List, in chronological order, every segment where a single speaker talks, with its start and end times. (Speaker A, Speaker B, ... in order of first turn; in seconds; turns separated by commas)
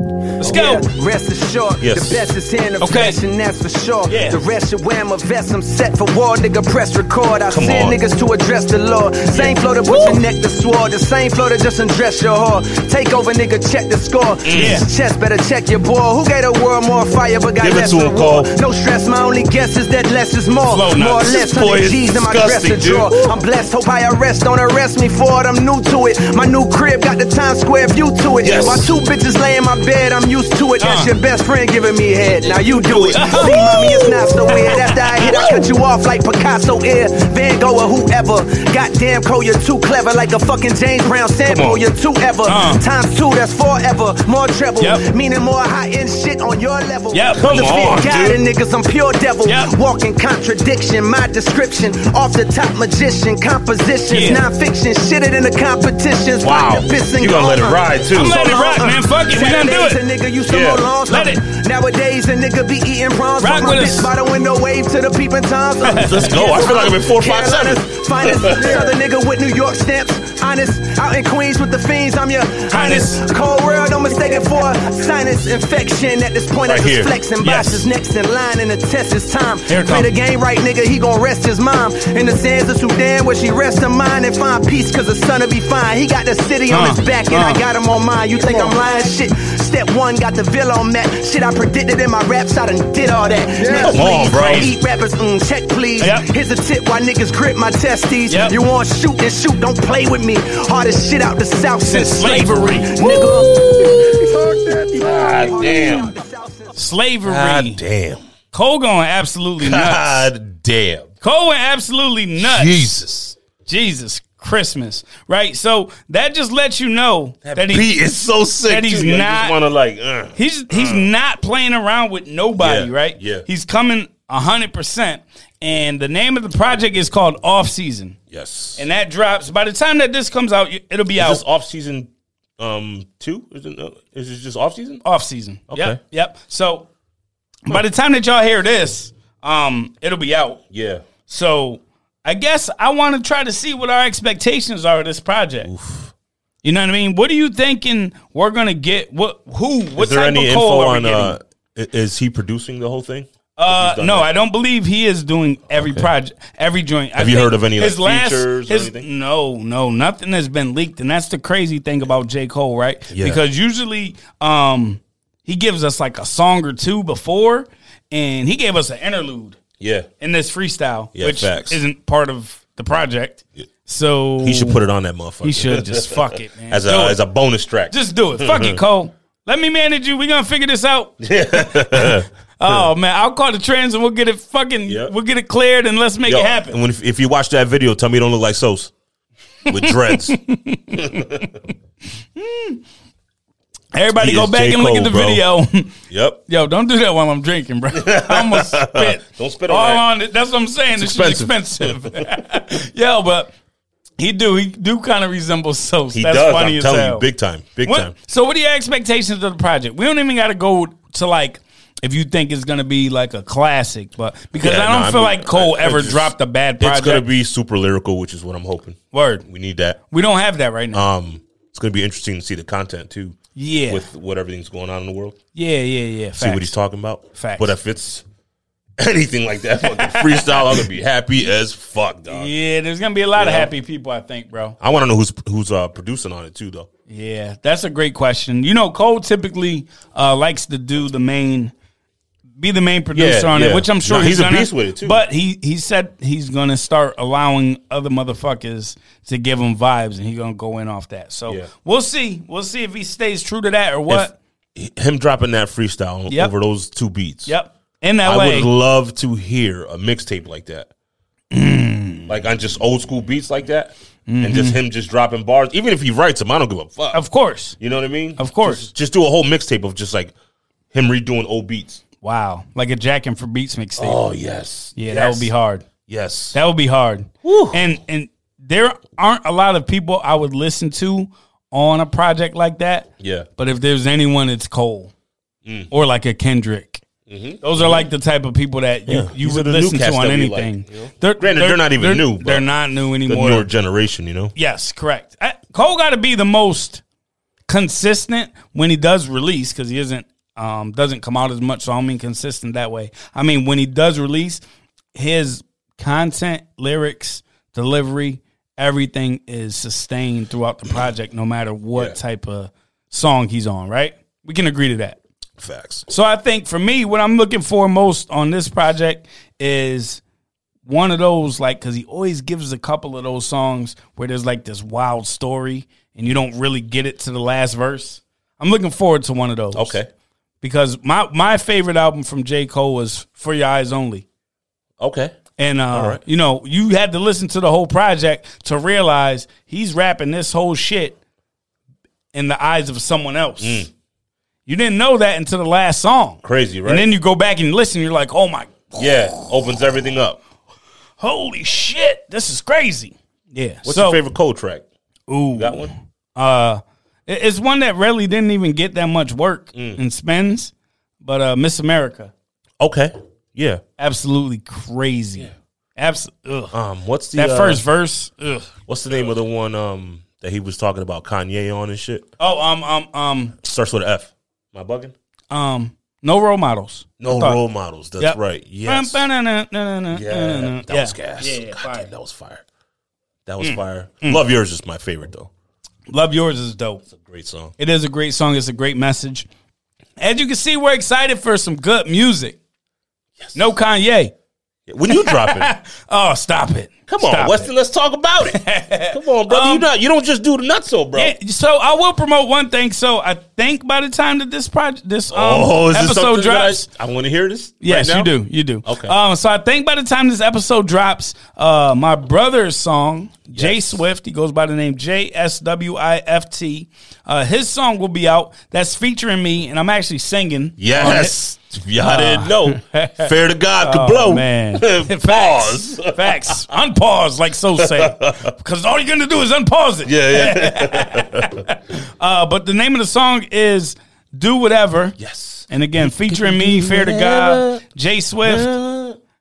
Speaker A: 0.4-0.9, Speaker B: 0.4-106.8, Speaker C: 1.8-2.3, Speaker A: 2.8-3.2, Speaker A: 4.1-4.4, Speaker C: 7.5-8.0, Speaker A: 9.9-10.2, Speaker C: 14.4-14.8, Speaker A: 14.5-14.9, Speaker C: 17.6-18.5, Speaker A: 20.7-21.5, Speaker C: 21.4-23.4, Speaker C: 28.4-28.9, Speaker A: 30.8-31.1, Speaker C: 32.6-33.5, Speaker A: 33.1-35.6, Speaker A: 41.4-41.8, Speaker A: 42.5-42.8, Speaker A: 44.8-45.0, Speaker A: 47.1-47.4, Speaker C: 47.4-48.4, Speaker A: 49.4-49.7, Speaker A: 54.1-54.4, Speaker C: 56.4-58.4, Speaker A: 58.1-60.0, Speaker C: 60.5-60.8, Speaker A: 61.1-61.4, Speaker A: 63.4-64.1, Speaker A: 65.8-66.4, Speaker C: 66.0-68.9, Speaker A: 72.7-73.2, Speaker C: 76.6-77.1, Speaker A: 77.4-77.8, Speaker A: 79.7-80.1, Speaker A: 86.7-87.6, Speaker C: 93.7-94.7, Speaker A: 93.8-94.7, Speaker A: 96.0-96.3, Speaker A: 98.3-98.6, Speaker A: 101.8-103.0, Speaker C: 103.0-106.1, Speaker A: 106.8-107.8, Speaker C: 107.2-108.2, Speaker A: 108.5-110.3, Speaker C: 109.6-111.1, Speaker A: 111.2-112.9, Speaker C: 112.4-113.4, Speaker A: 113.7-117.9, Speaker C: 117.4-121.1, Speaker A: 118.7-119.5, Speaker A: 120.3-128.2, Speaker C: 122.6-123.5, Speaker C: 128.3-128.8, Speaker A: 128.8-131.4, Speaker C: 131.2-135.0, Speaker A: 135.0-136.9, Speaker C: 135.7-136.0, Speaker A: 137.7-140.6, Speaker C: 140.7-141.0, Speaker A: 141.3-145.7, Speaker C: 145.6-146.1, Speaker A: 146.6-151.4, Speaker C: 150.0-154.3, Speaker A: 153.6-169.6, Speaker C: 155.7-156.1, Speaker C: 157.2-159.1, Speaker C: 163.1-163.4, Speaker C: 169.8-170.1, Speaker A: 170.2-174.8, Speaker C: 171.1-171.8, Speaker C: 174.4-178.8, Speaker A: 175.4-177.2, Speaker A: 177.9-186.8, Speaker C: 181.2-182.9, Speaker C: 184.9-185.1, Speaker C: 186.2-188.9, Speaker C: 189.7-190.4, Speaker A: 189.7-191.5, Speaker C: 190.9-191.5, Speaker A: 192.3-192.8, Speaker A: 193.9-203.5, Speaker C: 194.2-195.4, Speaker C: 196.1-196.4, Speaker C: 197.9-200.0, Speaker C: 200.9-202.3, Speaker A: 204.2-207.2, Speaker C: 206.1-208.1, Speaker A: 207.8-217.3, Speaker C: 214.6-220.0, Speaker A: 219.1-219.4, Speaker A: 220.1-221.0, Speaker C: 220.9-223.4, Speaker A: 223.6-224.0, Speaker C: 223.9-225.4, Speaker A: 225.5-226.7, Speaker C: 226.4-228.2, Speaker A: 227.3-227.7, Speaker C: 229.0-232.5, Speaker A: 229.8-230.8, Speaker A: 232.3-234.8, Speaker C: 233.4-233.7, Speaker C: 234.8-236.9, Speaker A: 237.1-241.7, Speaker A: 242.6-254.4, Speaker C: 243.1-245.2, Speaker C: 254.1-257.5, Speaker A: 257.4-258.7, Speaker C: 258.2-260.9, Speaker A: 261.5-262.3, Speaker C: 262.3-267.2, Speaker A: 264.3-264.8, Speaker A: 267.1-267.8, Speaker C: 267.8-270.3, Speaker A: 268.4-268.9, Speaker C: 270.9-272.0, Speaker A: 272.2-274.2, Speaker C: 274.0-275.5, Speaker A: 274.9-275.9, Speaker C: 276.1-276.6, Speaker A: 276.5-285.1, Speaker C: 277.4-277.8, Speaker C: 283.2-283.5, Speaker C: 285.6-285.9, Speaker A: 285.9-287.0, Speaker C: 287.3-288.1, Speaker A: 287.6-293.7, Speaker C: 289.1-292.6, Speaker C: 293.2-294.5, Speaker A: 294.6-297.0, Speaker A: 297.7-304.6, Speaker A: 305.1-315.2, Speaker C: 315.6-316.1, Speaker A: 316.1-320.2, Speaker A: 320.9-330.0, Speaker C: 329.7-330.1, Speaker A: 330.6-334.2, Speaker C: 335.0-335.4, Speaker A: 335.6-341.2, Speaker C: 335.9-336.2, Speaker A: 342.3-343.9, Speaker C: 343.6-343.9, Speaker A: 344.6-349.4, Speaker C: 346.4-347.1, Speaker C: 348.9-350.4, Speaker A: 351.2-354.2, Speaker C: 353.8-354.8, Speaker A: 355.3-362.3, Speaker C: 355.5-355.9, Speaker C: 359.7-360.0, Speaker C: 362.8-363.8, Speaker A: 364.0-366.7, Speaker C: 366.7-367.8, Speaker A: 367.3-368.7, Speaker C: 368.9-372.3, Speaker A: 372.4-373.5, Speaker C: 373.6-375.1, Speaker A: 375.5-377.6, Speaker C: 377.2-379.2, Speaker A: 378.2-382.1, Speaker C: 380.1-382.6, Speaker C: 383.4-385.5, Speaker A: 383.6-384.4, Speaker A: 386.1-387.0, Speaker C: 387.1-387.7, Speaker A: 387.8-389.5, Speaker A: 390.2-392.6, Speaker A: 393.5-394.3, Speaker C: 394.9-395.7, Speaker A: 395.1-397.7, Speaker C: 397.1-401.3, Speaker A: 398.4-399.9, Speaker A: 401.1-406.9, Speaker C: 405.3-408.3, Speaker A: 407.8-421.4, Speaker C: 408.8-409.1, Speaker C: 413.5-414.0, Speaker C: 420.8-426.6, Speaker A: 422.0-435.2, Speaker C: 427.8-428.5, Speaker C: 430.0-431.6, Speaker C: 435.2-437.8, Speaker A: 435.7-438.7, Speaker C: 438.4-439.2